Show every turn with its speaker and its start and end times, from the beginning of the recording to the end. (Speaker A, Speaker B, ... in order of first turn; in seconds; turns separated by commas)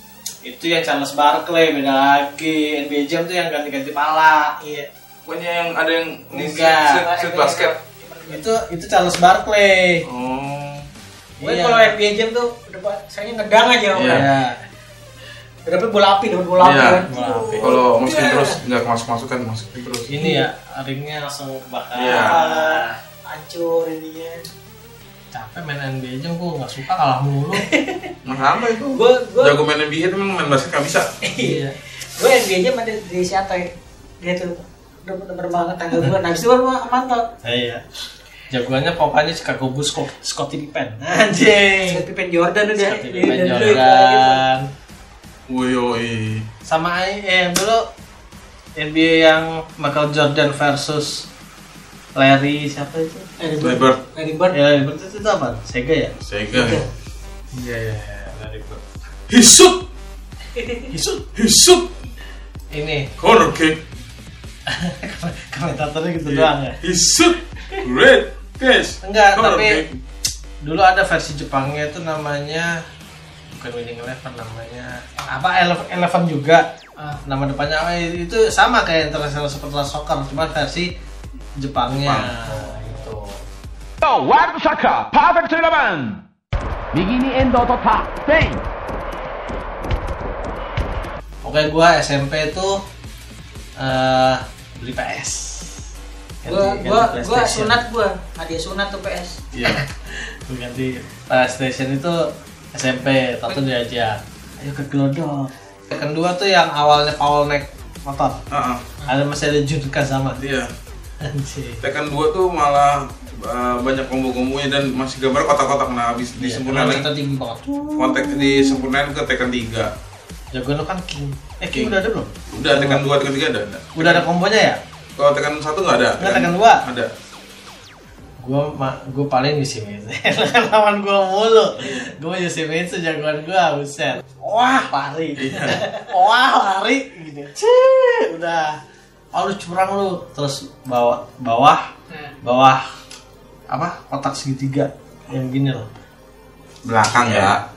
Speaker A: 0.4-4.6, Speaker B: 4.6-4.9, Speaker C: 5.2-7.8, Speaker A: 6.3-7.0, Speaker B: 7.0-8.4, Speaker A: 8.3-10.1, Speaker C: 10.1-10.9, Speaker A: 11.4-12.0, Speaker B: 11.4-14.3, Speaker C: 13.9-14.3, Speaker A: 14.0-14.6, Speaker B: 15.7-18.6, Speaker C: 16.6-17.0, Speaker A: 17.1-17.8, Speaker C: 17.6-20.1, Speaker A: 20.1-23.0, Speaker B: 20.2-20.5, Speaker C: 21.9-22.4, Speaker B: 22.1-24.4, Speaker A: 25.3-27.7, Speaker B: 27.5-28.1, Speaker C: 28.2-31.1, Speaker B: 28.9-29.6, Speaker B: 31.2-31.6, Speaker A: 31.4-31.8, Speaker B: 32.2-33.7, Speaker B: 34.2-37.2, Speaker A: 37.4-37.8, Speaker A: 38.5-42.0, Speaker B: 41.9-44.4, Speaker A: 42.8-44.7, Speaker C: 45.5-46.5, Speaker A: 46.7-47.9, Speaker A: 48.8-51.3, Speaker A: 52.2-53.3, Speaker B: 53.4-54.6, Speaker C: 53.6-54.0, Speaker A: 54.5-56.1, Speaker C: 56.2-56.8, Speaker B: 56.5-56.9, Speaker A: 57.5-58.8, Speaker C: 59.3-59.9, Speaker B: 60.6-60.9, Speaker C: 60.9-61.9, Speaker A: 62.7-63.1, Speaker C: 63.2-63.8, Speaker A: 64.7-66.8, Speaker C: 66.2-70.0, Speaker A: 69.0-69.8, Speaker A: 70.6-72.8, Speaker A: 73.5-76.7, Speaker A: 77.2-80.9, Speaker A: 81.6-83.4, Speaker C: 81.9-82.3, Speaker B: 82.5-83.0, Speaker D: 84.0-86.2, Speaker D: 86.9-88.6, Speaker A: 91.4-92.8, Speaker A: 93.8-95.7, Speaker A: 96.4-97.8, Speaker B: 96.5-99.8, Speaker C: 99.5-99.8, Speaker A: 100.1-102.2, Speaker A: 102.7-108.4, Speaker C: 108.5-108.8, Speaker A: 109.1-110.4, Speaker C: 110.4-110.7, Speaker A: 111.2-111.8, Speaker C: 111.8-117.1, Speaker A: 116.4-118.9, Speaker C: 118.0-119.9, Speaker A: 120.5-123.0, Speaker C: 122.5-124.3, Speaker A: 124.0-124.8, Speaker C: 125.2-127.1, Speaker A: 126.2-126.8, Speaker A: 128.4-138.8, Speaker C: 131.8-132.1, Speaker C: 135.4-135.8, Speaker A: 139.3-141.8, Speaker A: 142.4-142.8, Speaker A: 143.7-145.9, Speaker C: 146.8-147.6, Speaker A: 147.1-147.6